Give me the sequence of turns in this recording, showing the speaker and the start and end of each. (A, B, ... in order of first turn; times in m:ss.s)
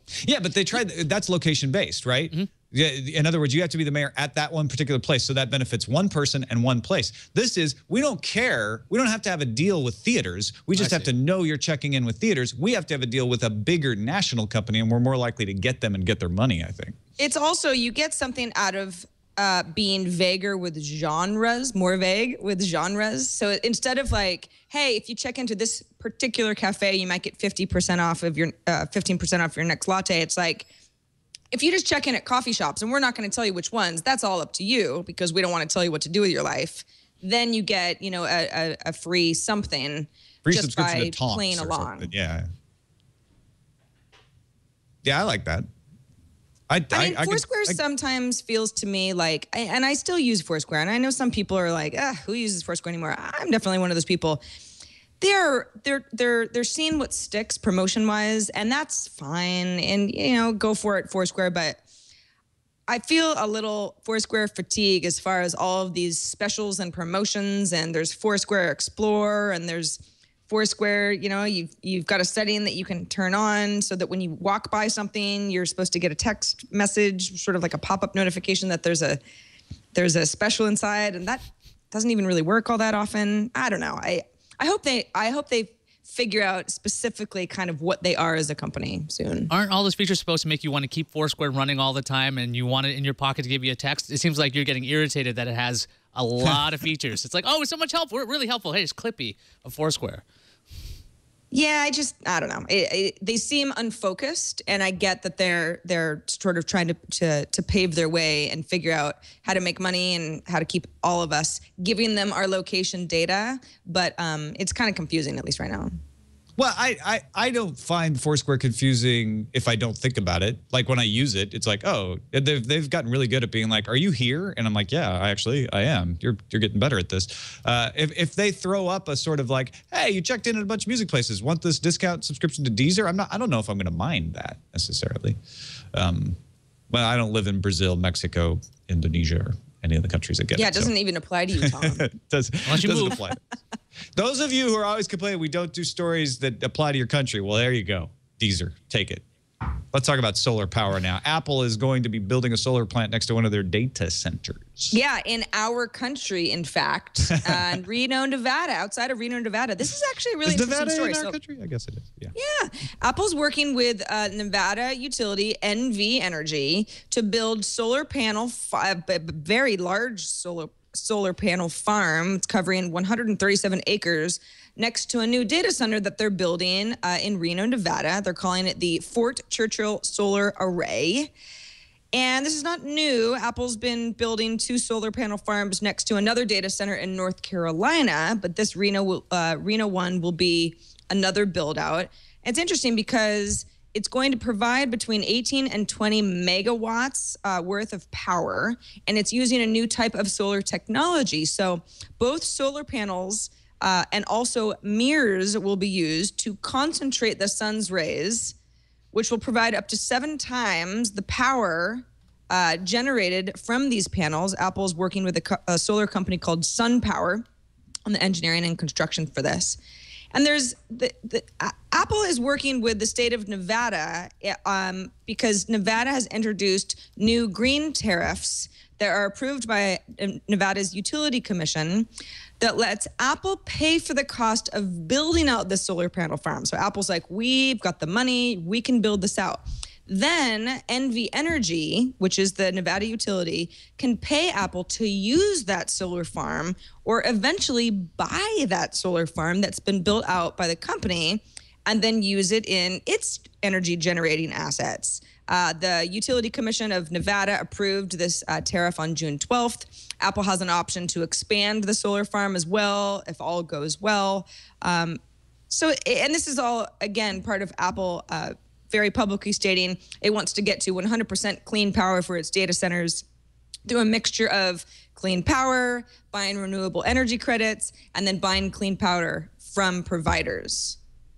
0:00.2-0:16.9 A
0:17.2-0:30.7 B
0:31.5-0:42.1 B
0:40.4-0:42.5 A
0:45.0-0:45.6 A
0:46.7-0:47.8 A
0:46.9-0:54.4 B
0:55.2-1:01.8 B
1:02.9-1:19.2 B
1:19.9-1:29.5 B
1:29.5-1:40.2 C
1:41.5-1:55.9 B
1:56.6-2:15.4 A
2:15.9-2:16.4 A
2:16.9-2:20.9 A
2:20.6-2:22.0 B
2:21.6-2:23.4 A
2:22.6-2:23.2 C
2:24.2-2:29.2 A
2:29.9-2:35.0 A
2:34.9-2:41.3 B
2:40.4-2:42.3 A
2:42.3-3:01.3 B
3:02.1-3:28.5 B
3:29.1-3:37.4 B
3:38.0-3:39.8 B
3:40.3-3:52.1 B
3:52.6-4:33.2 B
4:33.8-4:41.0 B